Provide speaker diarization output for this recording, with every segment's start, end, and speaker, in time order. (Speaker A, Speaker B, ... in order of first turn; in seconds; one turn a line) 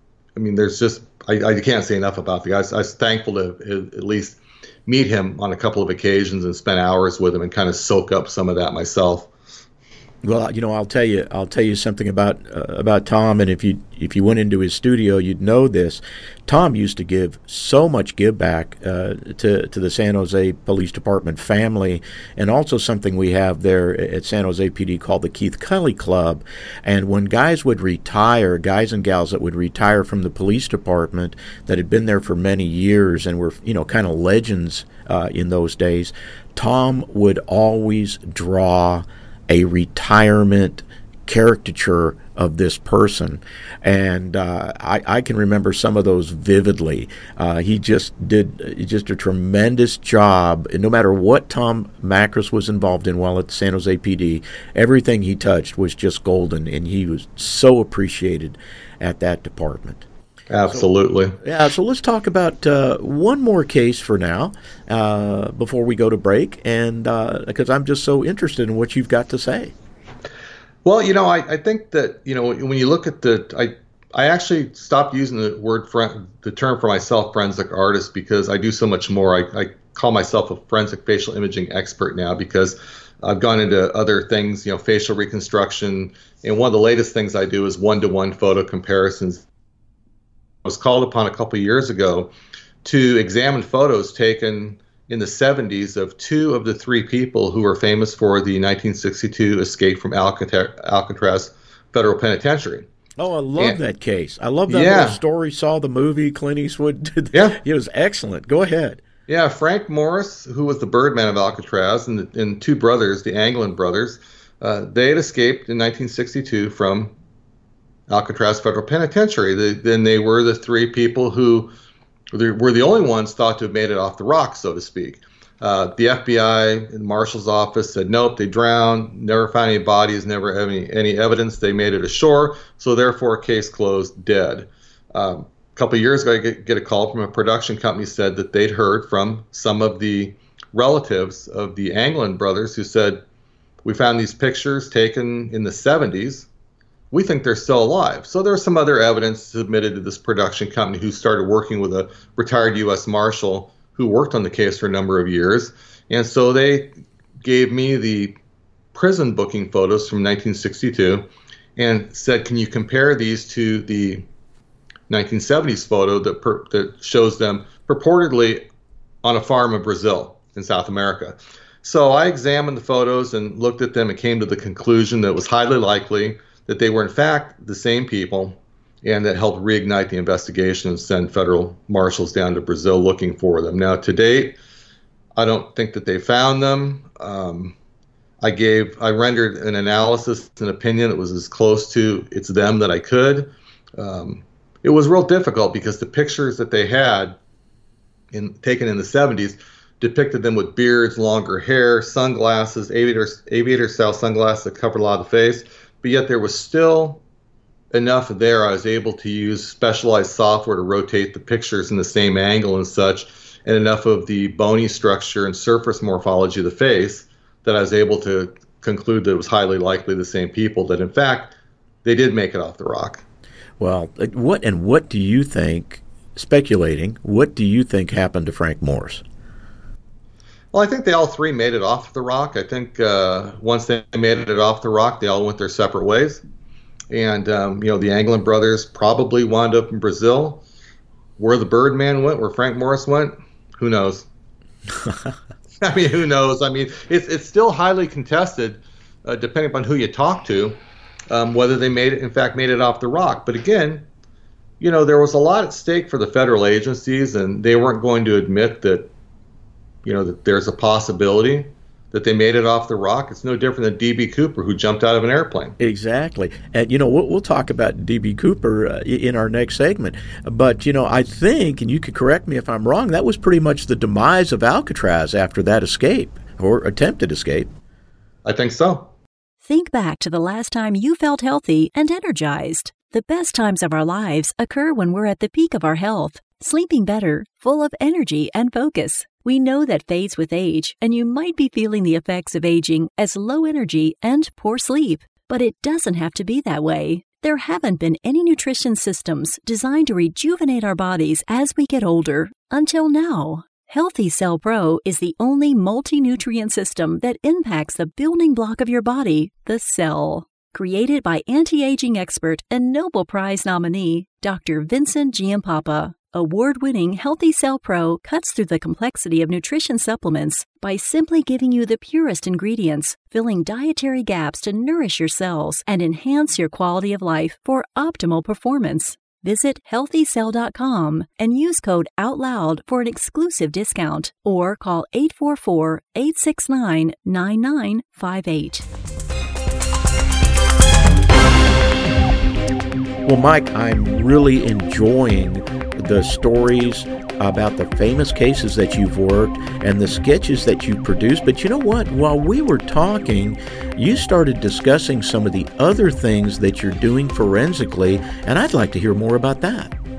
Speaker A: 0.3-9.3
Speaker B: 10.2-60.0
Speaker A: 60.5-61.4
Speaker B: 61.4-69.7
Speaker A: 70.8-89.4
Speaker A: 90.6-92.3
Speaker A: 92.8-102.8
Speaker B: 103.2-109.0
Speaker A: 104.7-105.2
Speaker A: 107.3-107.6
Speaker A: 109.3-117.1
Speaker A: 118.1-121.7
Speaker A: 122.3-143.2
Speaker A: 143.8-146.5
Speaker A: 147.1-156.9
Speaker A: 157.4-158.3
Speaker A: 158.9-161.2
Speaker A: 161.8-164.2
Speaker A: 165.1-168.6
Speaker A: 169.2-184.6
Speaker A: 185.4-187.7
Speaker A: 188.4-197.4
Speaker A: 198.3-207.2
Speaker A: 207.9-223.2
Speaker B: 223.8-229.2
Speaker A: 230.7-236.4
Speaker A: 237.1-240.6
Speaker A: 241.4-244.3
Speaker B: 245.0-245.3
Speaker A: 245.8-250.8
Speaker A: 251.3-254.0
Speaker A: 254.8-259.1
Speaker A: 260.0-265.7
Speaker B: 265.8-277.7
Speaker A: 278.4-279.1
Speaker C: 279.6-338.9
Speaker B: 343.2-359.9